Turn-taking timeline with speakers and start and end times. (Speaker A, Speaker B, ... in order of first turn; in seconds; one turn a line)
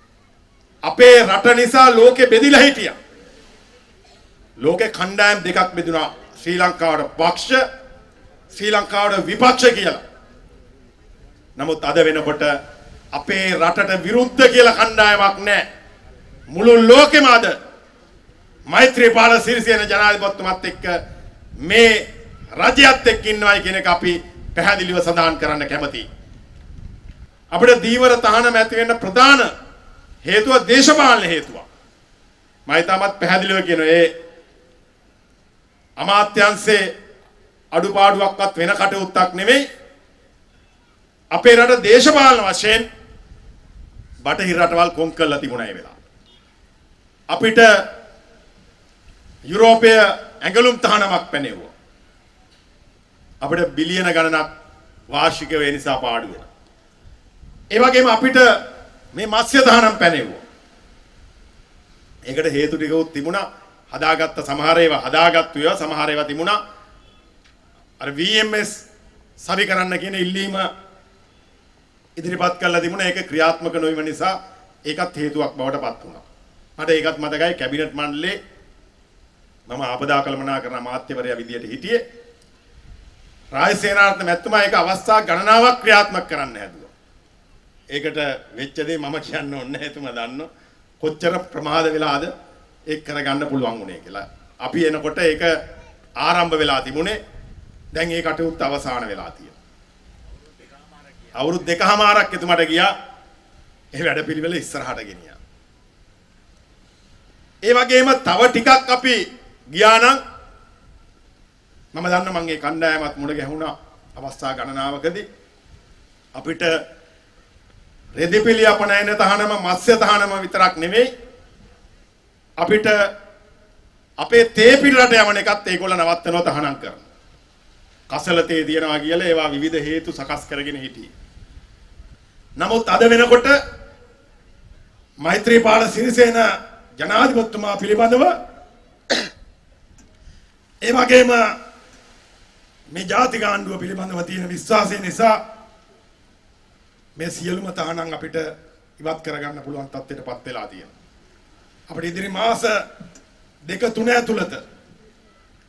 Speaker A: 0.8-3.0
Speaker A: 4.6-7.6
Speaker A: 8.5-10.0
Speaker A: 11.6-12.5
Speaker A: 13.1-15.6
Speaker A: 16.5-17.5
Speaker A: 18.7-21.0
Speaker A: 21.6-26.0
Speaker A: 27.5-29.5
Speaker A: 30.2-31.6
Speaker A: 32.7-34.1
Speaker A: 36.0-36.8
Speaker A: 37.7-39.6
Speaker A: 41.3-42.9
Speaker A: 44.2-46.0
Speaker A: 47.3-47.7
Speaker A: 49.5-51.7
Speaker A: 53.4-54.5
Speaker A: 55.1-56.5
Speaker A: 57.7-58.5
Speaker A: 59.1-60.4
Speaker A: 62.3-66.6
Speaker A: 68.0-68.8
Speaker A: 69.4-70.7
Speaker A: 72.2-74.3
Speaker A: 74.9-76.2
Speaker A: 76.8-78.4
Speaker A: 79.7-82.0
Speaker A: 83.5-86.9
Speaker A: 87.9-90.5
Speaker A: 91.0-92.3
Speaker A: 92.9-95.6
Speaker A: 96.2-97.2
Speaker A: 97.9-99.5
Speaker A: 101.3-102.9
Speaker A: 103.9-105.4
Speaker A: 107.6-110.2
Speaker A: 111.9-115.2
Speaker A: 116.3-116.8
Speaker A: 118.2-121.1
Speaker A: 122.6-123.0
Speaker A: 124.2-127.1
Speaker A: 128.1-131.1
Speaker A: 132.6-133.6
Speaker A: 135.2-138.3
Speaker A: 140.8-141.5
Speaker A: 142.9-145.4
Speaker A: 147.2-150.9
Speaker A: 151.9-152.8
Speaker A: 153.7-154.6